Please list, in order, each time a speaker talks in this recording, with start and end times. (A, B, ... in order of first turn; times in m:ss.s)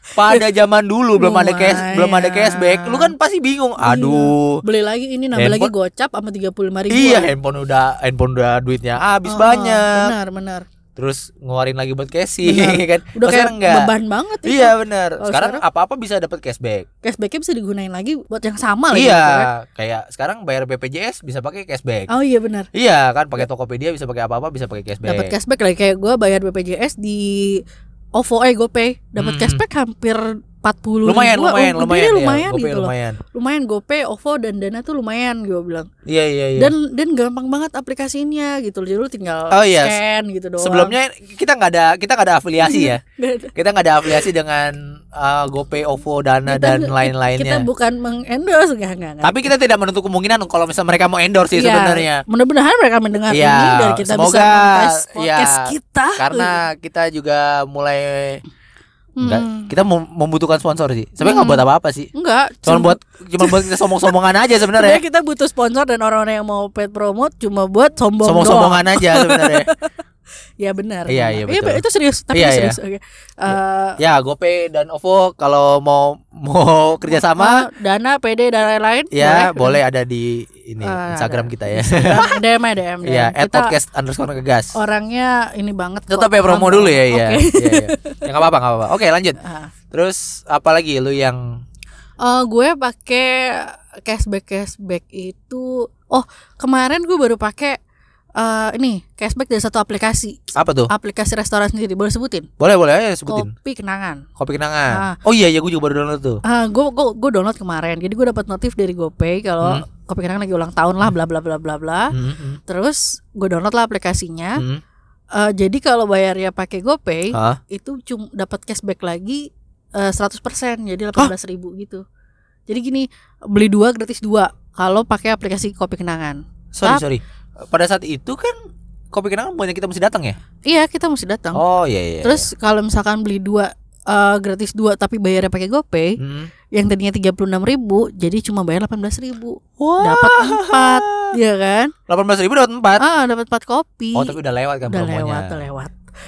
0:00.1-0:04.6 A
0:01.2-0:03.1 B
0:03.8-0:07.3 B
0:05.3-0:05.7 A
0:06.9-0:10.1 A
0:09.2-0:10.6 B
0:11.0-0:13.9 A
0:12.4-0:15.6 B
0:14.4-0:16.9 A
0:17.0-0:19.5 B
0:18.9-0:22.1 A
0:22.1-0:22.7 B
0:22.7-0:25.3 A
0:25.0-0:27.6 B
0:28.1-0:35.9 B
0:29.2-0:29.6 A
0:31.0-0:33.2 A
0:36.1-0:36.7 A
0:36.6-0:40.9 B
0:39.5-0:40.0 A
0:40.6-0:43.0 A
0:42.6-0:43.5 B
0:43.6-0:47.6 A
0:46.4-0:49.5 B
0:49.2-0:52.2 A
0:51.5-0:56.6 B
0:53.3-0:58.4 A
0:59.2-0:59.7 B
0:59.2-1:02.1 A
1:01.2-1:04.1 B
1:02.6-1:05.0 A
1:04.6-1:09.9 B
1:08.2-1:09.7 A
1:10.6-1:14.0 B
1:11.1-1:12.8 A
1:13.5-1:17.6 A
1:17.1-1:19.8 B
1:19.1-1:22.4 A
1:20.8-1:23.7 B
1:23.0-1:24.8 A
1:24.8-1:28.2 B
1:26.1-1:29.4 A
1:29.4-1:29.7 B
1:29.9-1:31.6 A
1:32.2-1:37.8 B
1:38.4-1:42.5 B
1:40.6-1:40.9 A
1:42.6-1:43.5 A
1:43.3-1:44.2 B
1:44.4-1:46.4 A
1:44.9-1:45.2 B
1:46.4-1:52.1 B
1:52.1-1:52.6 A
1:52.7-1:54.6 B
1:54.6-1:54.8 A
1:55.3-2:02.0 B
1:57.3-1:57.6 A
2:02.7-2:07.0 B
2:06.7-2:08.6 A
2:09.1-2:10.4 A
2:10.6-2:11.6 B
2:11.5-2:12.5 A
2:12.2-2:16.2 B
2:16.2-2:16.5 A
2:16.7-2:21.9 B
2:19.8-2:21.3 A
2:22.1-2:23.0 A
2:23.0-2:24.3 B
2:24.1-2:25.6 A
2:24.9-2:25.9 B